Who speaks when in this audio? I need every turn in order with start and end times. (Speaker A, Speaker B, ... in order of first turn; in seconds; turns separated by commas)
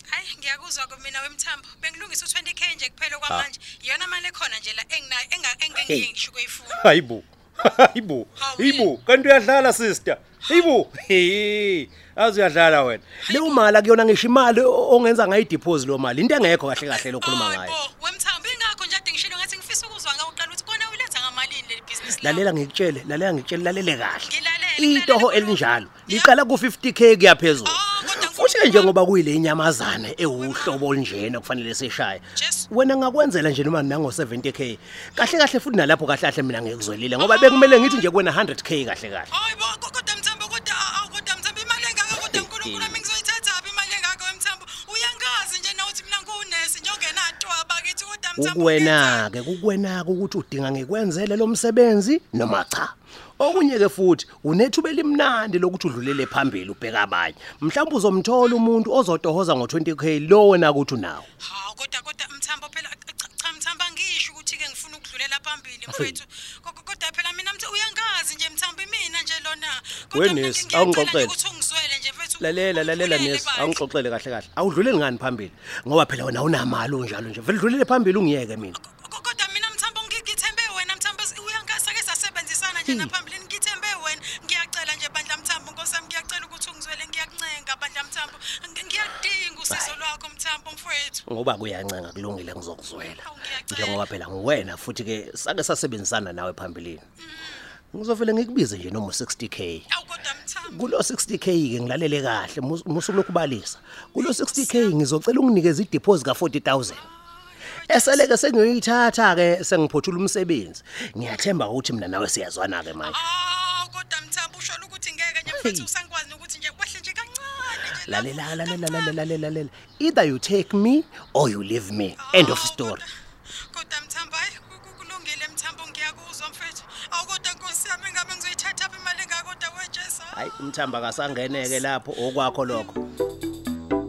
Speaker A: 0.1-6.9, Speaker B: 6.7-17.8, Speaker A: 8.4-8.9, Speaker A: 10.4-10.7, Speaker A: 13.2-13.6, Speaker A: 16.9-22.5, Speaker B: 22.2-39.3, Speaker A: 24.2-26.3, Speaker A: 27.6-29.0, Speaker A: 30.2-30.8, Speaker A: 32.3-32.7, Speaker A: 37.2-38.0, Speaker A: 39.3-49.3, Speaker B: 42.1-42.9, Speaker B: 48.4-61.3, Speaker A: 61.4-73.8, Speaker B: 65.9-66.2, Speaker B: 70.1-71.3, Speaker B: 72.4-78.8, Speaker A: 78.7-91.2, Speaker B: 82.8-83.1, Speaker B: 89.7-90.0, Speaker B: 91.3-97.0, Speaker A: 93.0-94.1, Speaker A: 97.2-97.7, Speaker B: 97.9-99.8, Speaker A: 99.9-100.9, Speaker B: 100.7-107.0, Speaker A: 104.1-104.9, Speaker A: 106.9-108.3, Speaker B: 107.9-113.2, Speaker A: 113.0-119.2, Speaker B: 115.5-115.9, Speaker B: 118.0-123.0, Speaker A: 122.2-123.1, Speaker A: 123.7-131.8, Speaker B: 130.3-133.0